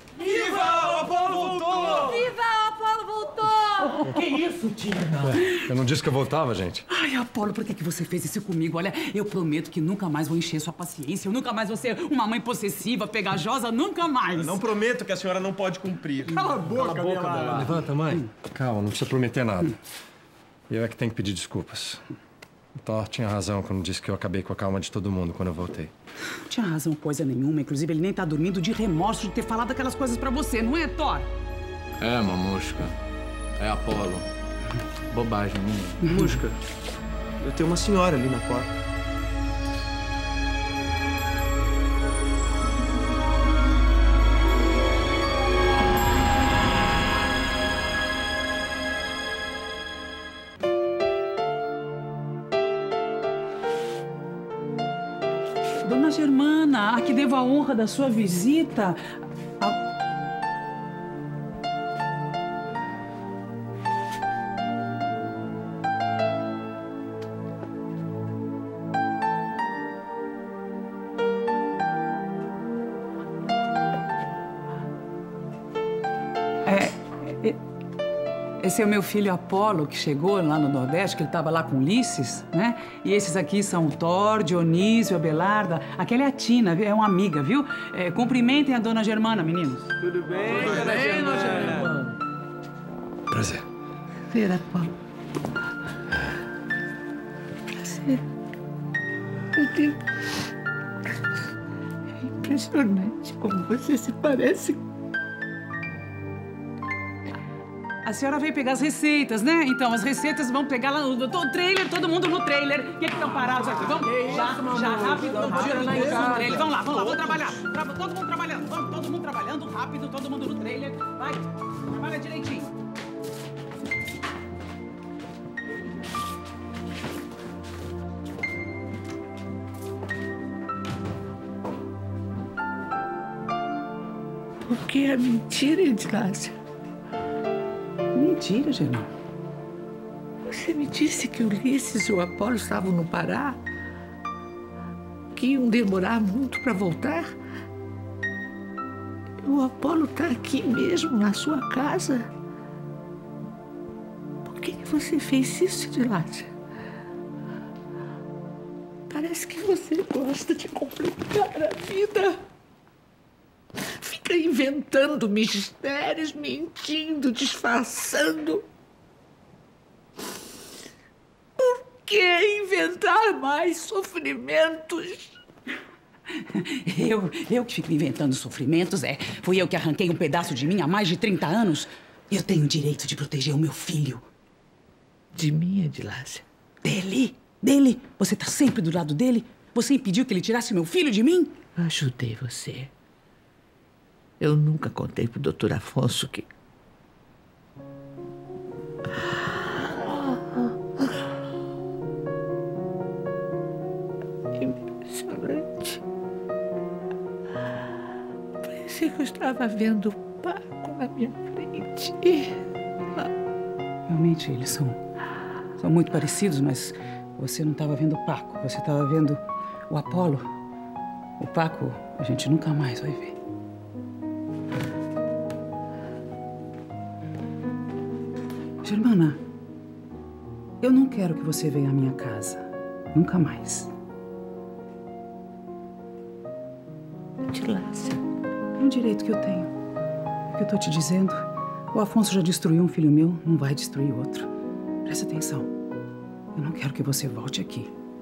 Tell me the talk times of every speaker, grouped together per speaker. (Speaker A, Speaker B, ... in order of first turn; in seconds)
Speaker A: 0.4-2.0, 14.4-17.7, 36.1-36.6, 37.4-38.7
Speaker B: 0.5-2.1, 3.7-5.3, 90.4-91.9, 94.3-94.9, 97.8-98.2, 99.6-100.0, 102.2-104.8, 134.7-136.5, 140.5-143.6, 145.3-147.3, 149.4-152.3, 154.5-156.5, 159.1-162.4, 163.8-168.6, 171.6-175.3, 185.3-186.4, 191.8-192.9, 194.4-196.5, 199.9-200.7, 204.6-206.0, 208.6-212.6, 237.5-238.2
Speaker C: 2.1-3.8, 6.9-14.6, 26.3-31.3, 55.8-59.0, 76.7-77.6, 78.6-89.9, 108.0-122.7, 138.1-139.1, 176.3-184.3, 186.8-191.6, 214.1-215.0, 215.8-220.5, 221.4-223.4, 228.8-229.4, 230.8-233.9, 238.8-239.7, 240.5-244.5, 245.1-245.7, 246.6-247.9
Speaker D: 5.3-6.8, 16.8-19.8, 20.7-22.0, 22.8-25.9, 93.3-93.7
Speaker E: 32.0-33.0, 33.6-34.3, 35.1-36.1, 91.0-91.5